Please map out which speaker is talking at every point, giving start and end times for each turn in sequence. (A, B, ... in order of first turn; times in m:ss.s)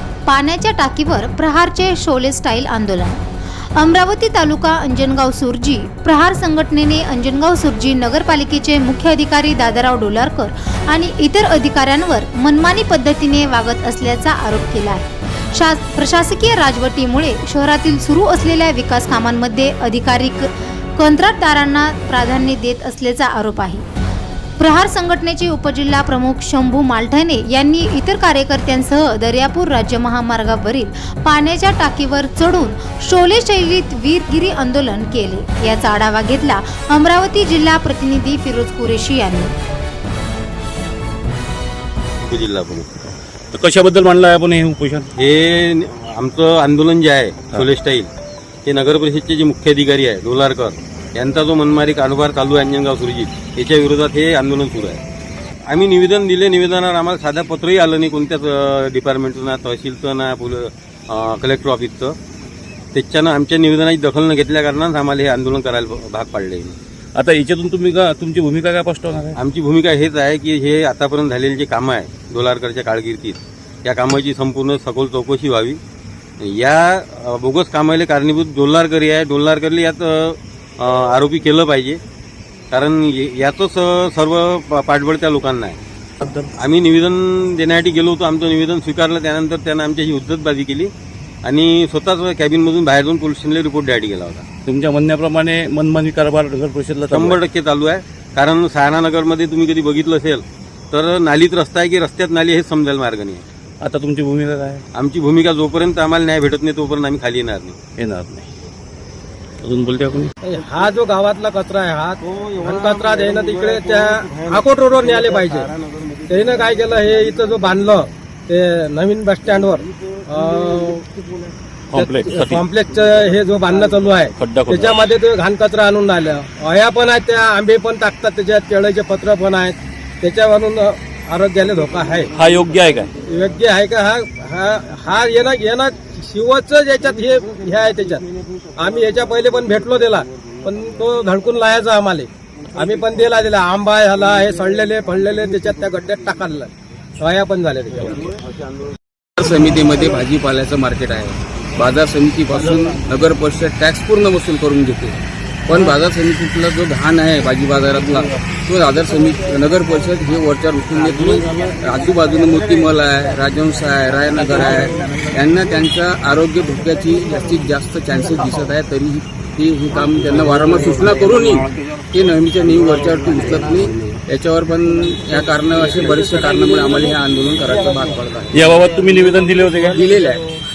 0:00.3-0:03.2 A
0:03.8-0:23.9 A
0:24.6-0:39.5 A
0:42.2-0:42.9 B
0:43.5-0:45.1 C
0:45.2-0:48.1 B
0:48.7-0:55.0 B
0:55.7-1:02.2 B
1:02.9-1:06.8 B
1:07.2-1:09.4 C
1:09.4-1:15.8 B
1:16.4-1:22.0 B
1:22.7-1:25.8 B
1:26.2-1:26.5 C
1:26.6-1:30.9 B
1:31.4-1:34.4 B
1:34.7-1:37.4 C
1:37.1-1:43.4 B
1:43.8-1:44.8 C
1:45.0-1:47.8 B
1:48.0-1:48.5 C
1:49.6-1:50.3 C
1:50.4-1:55.7 D
1:56.3-2:01.1 D
2:01.9-2:02.6 C
2:01.9-2:12.3 D
2:04.4-2:05.0 C
2:12.4-2:13.1 C
2:13.3-2:18.2 D
2:18.8-2:28.3 D
2:29.4-2:58.7 E
2:58.5-3:00.0 C
2:59.9-3:00.4 E